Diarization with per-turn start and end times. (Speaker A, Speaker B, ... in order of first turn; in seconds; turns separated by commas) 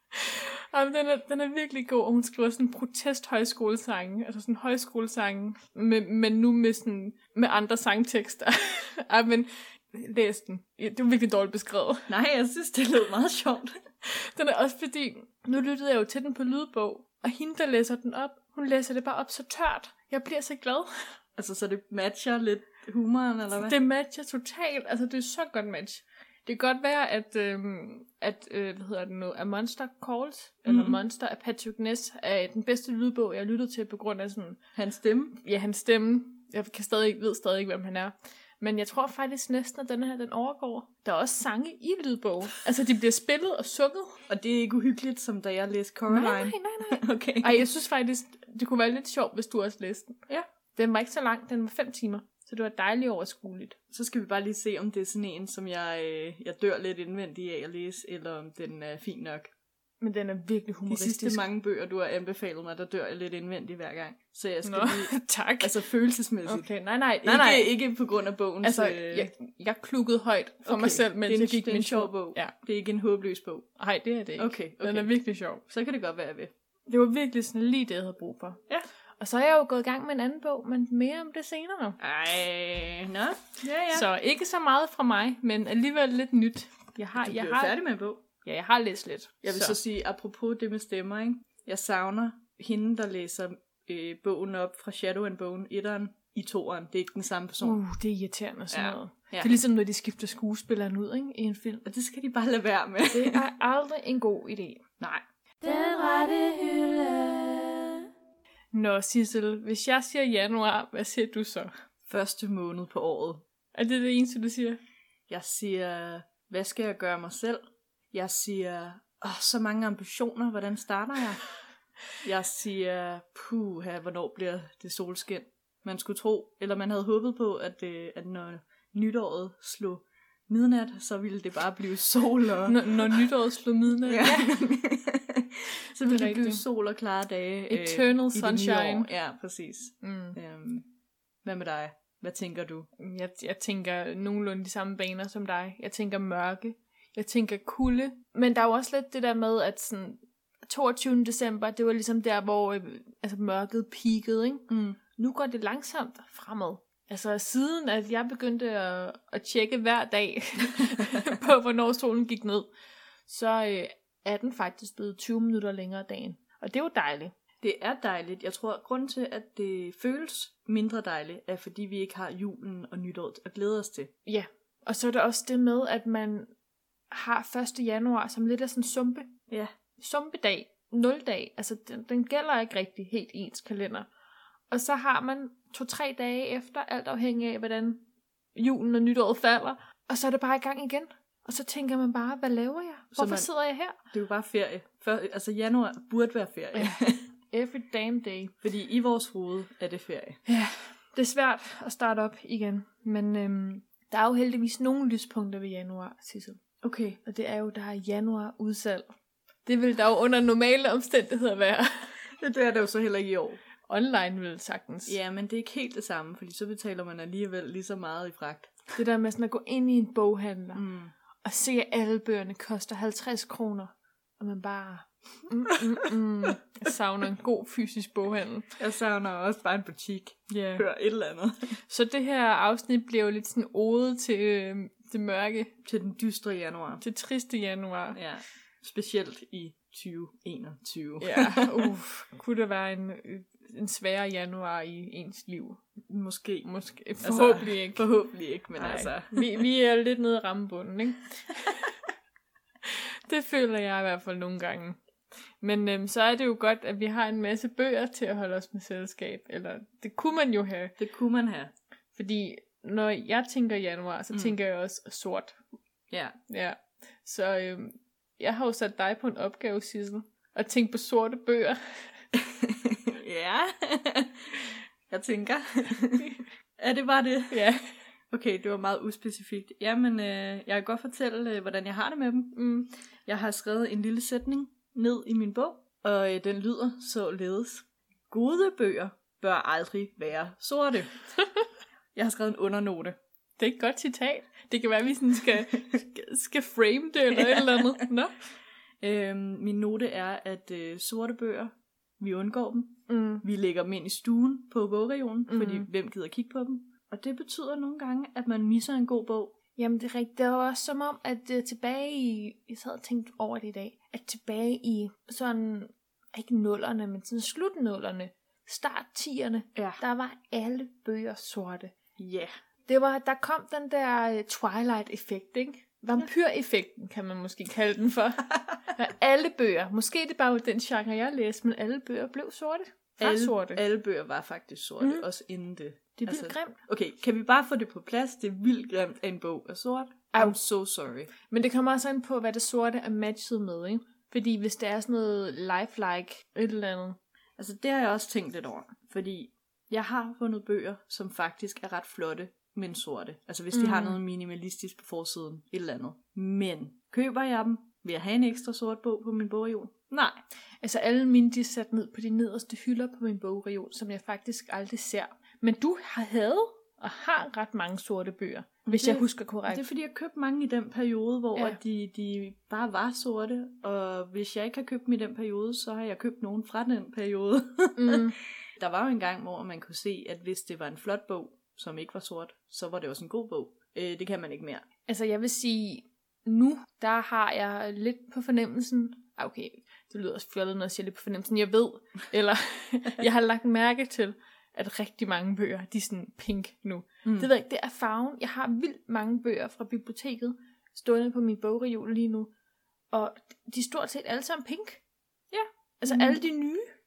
Speaker A: 0.1-12.1, Speaker B: 12.1-13.7, Speaker A: 14.0-21.1, Speaker B: 21.4-23.8, Speaker A: 23.6-34.6, Speaker B: 30.7-31.0, Speaker B: 34.7-35.4, Speaker A: 35.4-44.2, Speaker B: 44.3-47.7, Speaker A: 46.1-50.2, Speaker A: 50.8-53.8, Speaker B: 53.9-59.5, Speaker A: 60.0-61.4, Speaker B: 60.9-66.7, Speaker A: 64.6-65.7, Speaker A: 66.5-67.7, Speaker B: 67.2-69.3, Speaker A: 68.6-72.5, Speaker B: 70.6-73.7, Speaker A: 73.8-75.6, Speaker B: 74.4-75.1, Speaker B: 75.7-76.5, Speaker A: 76.9-78.6, Speaker A: 79.2-82.0, Speaker B: 82.0-84.1, Speaker A: 83.9-87.8, Speaker B: 87.2-88.2, Speaker A: 88.4-89.8, Speaker B: 89.4-97.8, Speaker A: 97.6-101.8, Speaker B: 98.7-99.5, Speaker B: 101.8-103.4, Speaker A: 103.1-104.8, Speaker A: 105.6-108.0, Speaker A: 108.7-111.7, Speaker B: 112.1-113.4, Speaker A: 113.7-114.8, Speaker B: 115.3-117.6, Speaker B: 118.1-121.4, Speaker B: 122.2-133.2, Speaker A: 132.7-134.6, Speaker B: 134.1-140.9, Speaker A: 136.0-136.6, Speaker A: 137.7-139.1, Speaker A: 140.0-140.4, Speaker B: 141.4-142.9, Speaker A: 143.0-162.7, Speaker B: 154.7-155.0, Speaker A: 163.3-167.3, Speaker B: 167.6-174.1, Speaker A: 174.2-176.5, Speaker A: 177.1-179.3, Speaker A: 180.0-184.1, Speaker A: 184.7-188.0, Speaker A: 188.5-193.9, Speaker B: 193.1-193.5, Speaker B: 194.1-197.2, Speaker A: 196.7-198.5, Speaker B: 198.6-200.4, Speaker A: 200.5-206.6, Speaker B: 206.8-207.2, Speaker A: 207.2-209.1, Speaker A: 209.6-212.3, Speaker B: 212.4-213.6, Speaker A: 213.9-215.2, Speaker B: 215.1-218.8, Speaker A: 218.9-220.8, Speaker B: 220.7-221.1, Speaker A: 221.4-228.7, Speaker B: 228.8-231.8, Speaker A: 231.9-235.7, Speaker B: 235.8-237.0, Speaker A: 237.0-238.2, Speaker B: 238.1-241.9, Speaker A: 241.2-245.8, Speaker B: 246.1-246.7, Speaker A: 246.6-248.1, Speaker B: 247.2-249.6, Speaker A: 248.8-252.0, Speaker A: 252.8-255.0, Speaker A: 255.6-260.9, Speaker B: 261.0-261.7, Speaker A: 262.1-265.6, Speaker B: 266.1-266.4, Speaker A: 266.5-272.1, Speaker B: 272.3-277.7, Speaker A: 277.5-277.9, Speaker B: 278.3-282.6, Speaker A: 282.5-282.9, Speaker B: 283.2-291.1, Speaker B: 292.1-293.2, Speaker A: 293.6-298.3, Speaker B: 297.3-298.0, Speaker B: 299.0-309.5, Speaker A: 303.1-303.4, Speaker A: 305.5-305.9, Speaker A: 309.8-321.9, Speaker B: 319.7-320.0, Speaker B: 322.2-322.5, Speaker A: 322.9-333.8, Speaker B: 333.2-341.3, Speaker A: 335.0-335.2, Speaker A: 336.2-336.8, Speaker A: 341.4-347.2, Speaker B: 347.6-360.4, Speaker A: 353.7-354.2, Speaker A: 360.8-369.8, Speaker B: 368.9-384.8, Speaker A: 378.0-378.4, Speaker A: 385.1-402.5, Speaker B: 397.2-397.5, Speaker A: 403.1-405.0, Speaker B: 405.5-406.4, Speaker A: 406.0-406.9